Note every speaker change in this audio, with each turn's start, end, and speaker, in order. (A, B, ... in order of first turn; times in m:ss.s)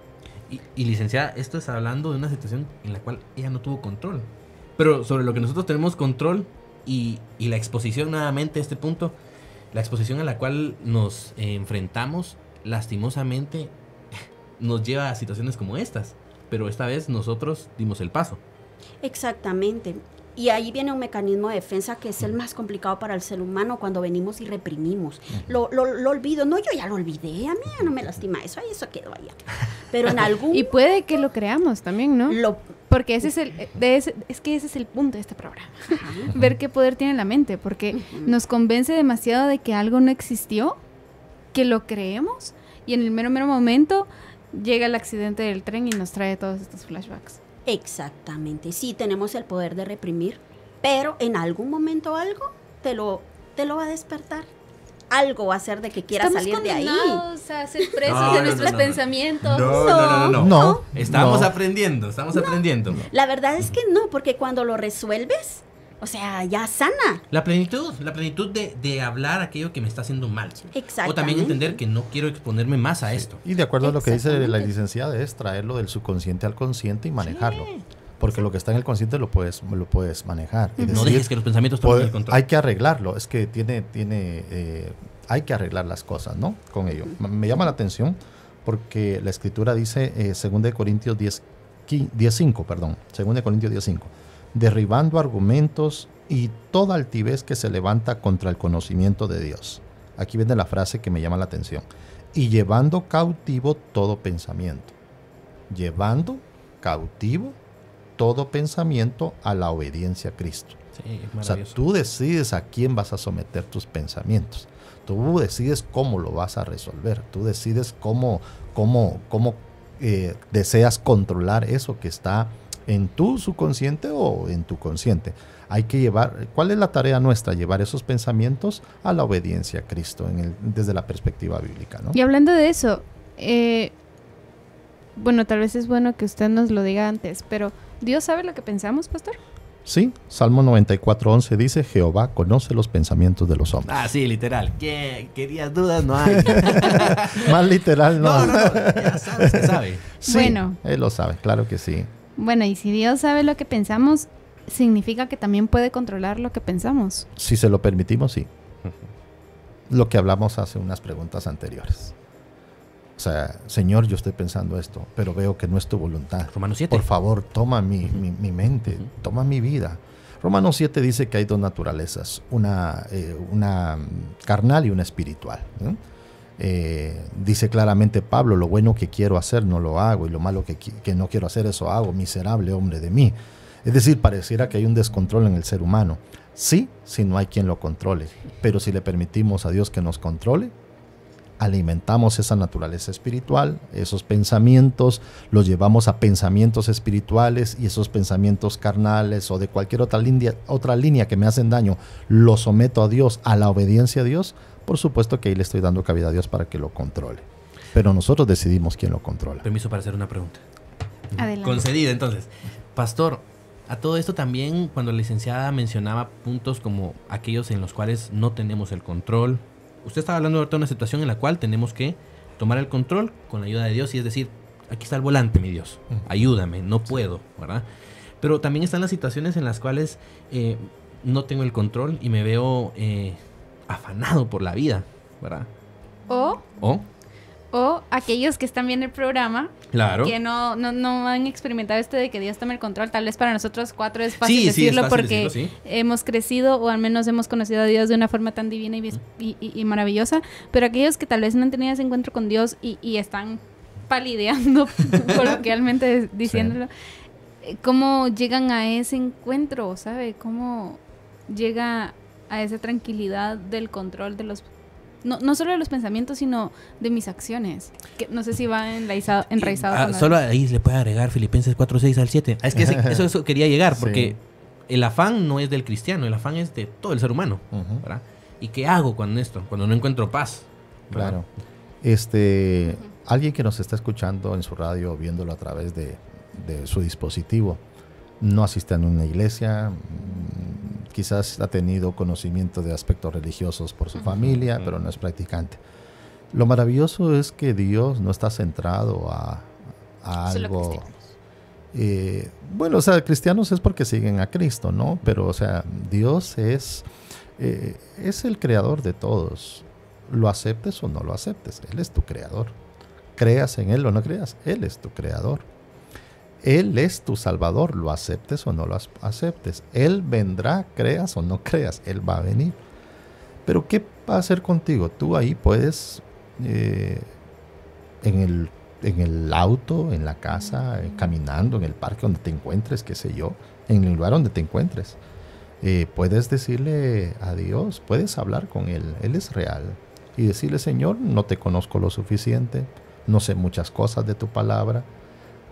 0:00.5-0:09.2 A
0:09.7-0:13.7 A
0:14.6-0:18.4 A
0:19.0-0:29.4 B
0:29.9-0:30.8 B
0:30.5-0:40.8 C
0:32.3-0:32.6 B
0:35.9-0:36.3 B
0:37.9-0:38.3 B
0:41.5-0:47.4 C
0:47.7-0:54.5 B
0:55.1-0:57.2 B
0:56.1-1:00.1 C
0:58.0-0:58.9 B
0:58.0-1:03.1 A
0:59.5-1:00.8 B
1:00.3-1:01.5 D
1:02.3-1:07.2 B
1:07.3-1:13.4 A
1:10.7-1:11.8 B
1:13.2-1:17.7 D
1:13.8-1:14.7 B
1:17.2-1:17.8 A
1:18.2-1:44.9 D
1:20.8-1:21.1 C
1:20.9-1:22.4 A
1:45.7-1:47.6 D
1:48.2-1:50.8 D
1:51.0-1:51.8 A
1:51.4-2:12.2 D
2:12.1-2:13.9 C
2:15.2-2:19.4 C
2:19.9-2:24.0 D
2:23.9-2:27.7 A
2:26.2-2:32.1 D
2:28.2-2:30.1 A
2:30.2-2:30.8 C
2:32.4-2:37.3 C
2:37.4-2:38.5 D
2:39.9-2:42.1 D
2:43.2-2:56.0 D
2:46.5-2:47.0 A
2:56.6-3:10.7 D
3:11.6-3:29.6 D
3:29.6-3:30.6 A
3:31.4-3:47.8 A
3:31.4-3:31.9 C
3:48.4-3:55.7 A
3:56.3-3:56.6 C
3:57.7-4:16.9 C
3:59.9-4:00.4 A
4:04.4-4:05.7 A
4:16.5-4:16.8 D
4:17.6-4:24.7 C
4:25.2-4:30.4 C
4:29.6-4:41.4 A
4:32.7-4:33.3 D
4:33.9-4:34.4 D
4:37.7-4:38.0 D
4:41.1-4:41.5 D
4:42.0-4:47.8 D
4:48.4-4:55.8 D
4:54.4-4:54.8 A
4:56.5-4:59.7 D
5:00.2-5:01.1 D
5:00.5-5:01.1 C
5:01.9-5:07.1 D
5:07.6-5:12.8 D
5:13.4-5:15.6 D
5:16.6-5:22.8 D
5:23.7-5:27.3 D
5:28.2-5:35.2 D
5:35.8-5:45.1 D